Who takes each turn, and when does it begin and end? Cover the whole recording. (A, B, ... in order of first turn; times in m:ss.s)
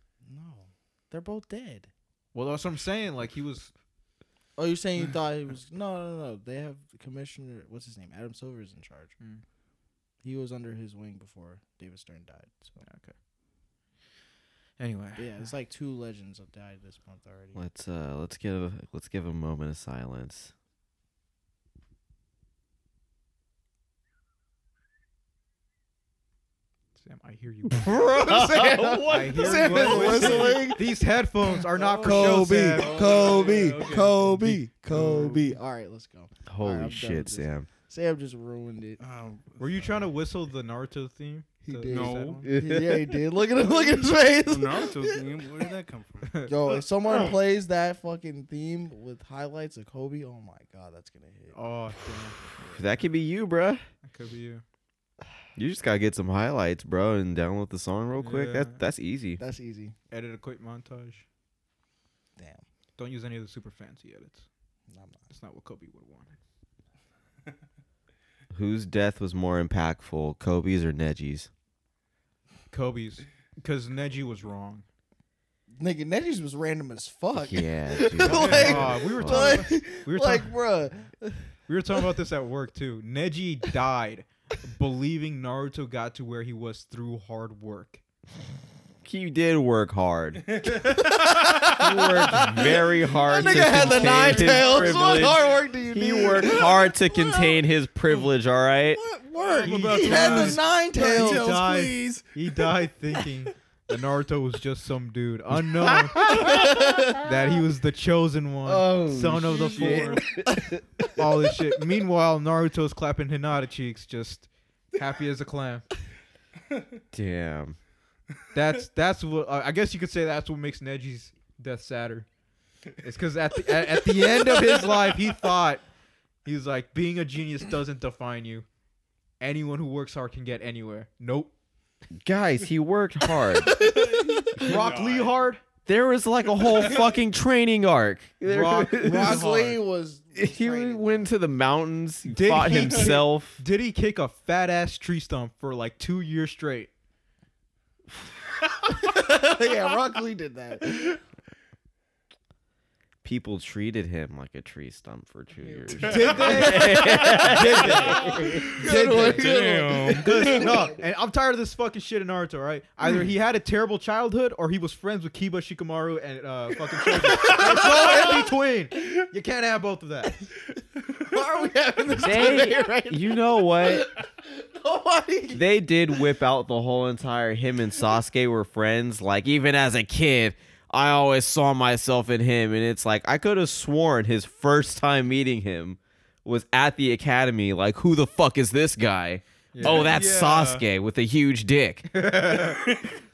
0:00.2-0:01.9 A
0:02.3-0:03.7 B
0:04.6-0:09.2 A
0:10.2-0:12.8 A
0:12.8-0:13.1 B
0:14.8-0:15.4 B
0:15.2-0:17.6 A
0:17.5-0:20.5 C
0:27.0-0:28.1 B
0:27.8-0:30.8 C
0:27.9-0:30.9 A
0:29.1-0:35.5 B
0:31.5-0:39.0 A
0:32.0-0:34.0 D
0:36.5-0:37.7 C
0:39.0-0:40.1 D
0:39.6-0:42.5 B
0:41.6-0:45.4 A
0:41.9-0:42.6 D
0:42.4-0:43.2 C
0:44.4-0:46.4 D
0:46.2-0:46.8 B
0:46.5-0:51.7 A
0:51.5-0:52.8 B
0:52.7-0:53.8 C
0:54.0-0:54.6 B
0:55.6-0:59.4 C
0:58.2-0:58.8 B
0:59.4-0:59.9 A
1:00.1-1:01.2 B
1:02.4-1:02.6 A
1:03.0-1:04.5 B
1:04.9-1:05.2 A
1:05.3-1:06.3 B
1:08.5-1:11.5 C
1:12.7-1:14.8 B
1:15.7-1:21.5 A
1:17.3-1:19.7 C
1:18.2-1:20.5 B
1:21.7-1:28.0 B
1:29.0-1:30.9 C
1:30.6-1:31.5 D
1:30.8-1:37.6 A
1:31.7-1:39.0 C
1:32.3-1:32.7 B
1:33.4-1:34.9 B
1:34.3-1:35.4 D
1:38.9-1:41.7 A
1:39.4-1:46.5 B
1:39.4-1:42.6 D
1:45.8-1:47.2 C
1:46.3-1:47.1 A
1:47.2-1:50.2 B
1:48.6-1:51.2 C
1:49.5-1:50.3 D
1:51.2-1:55.9 B
1:57.1-1:57.8 C
1:58.5-2:02.3 B
2:02.9-2:05.8 B
2:06.4-2:08.7 B
2:09.4-2:11.5 B
2:12.2-2:13.8 C
2:13.5-2:14.7 A
2:13.7-2:15.3 D
2:14.6-2:15.6 B
2:15.8-2:19.4 C
2:18.4-2:19.8 B
2:19.0-2:21.3 A
2:20.4-2:23.6 C
2:22.3-2:26.9 B
2:28.8-2:31.2 A
2:33.2-2:38.7 C
2:35.6-2:41.0 A
2:35.9-2:39.5 B
2:38.5-2:40.7 D
2:40.1-2:50.4 B
2:47.3-2:48.4 A
2:51.0-2:56.2 A
2:52.1-2:54.1 C
2:55.5-3:12.1 C
3:09.7-3:10.2 B
3:09.8-3:10.8 D
3:12.1-3:12.9 B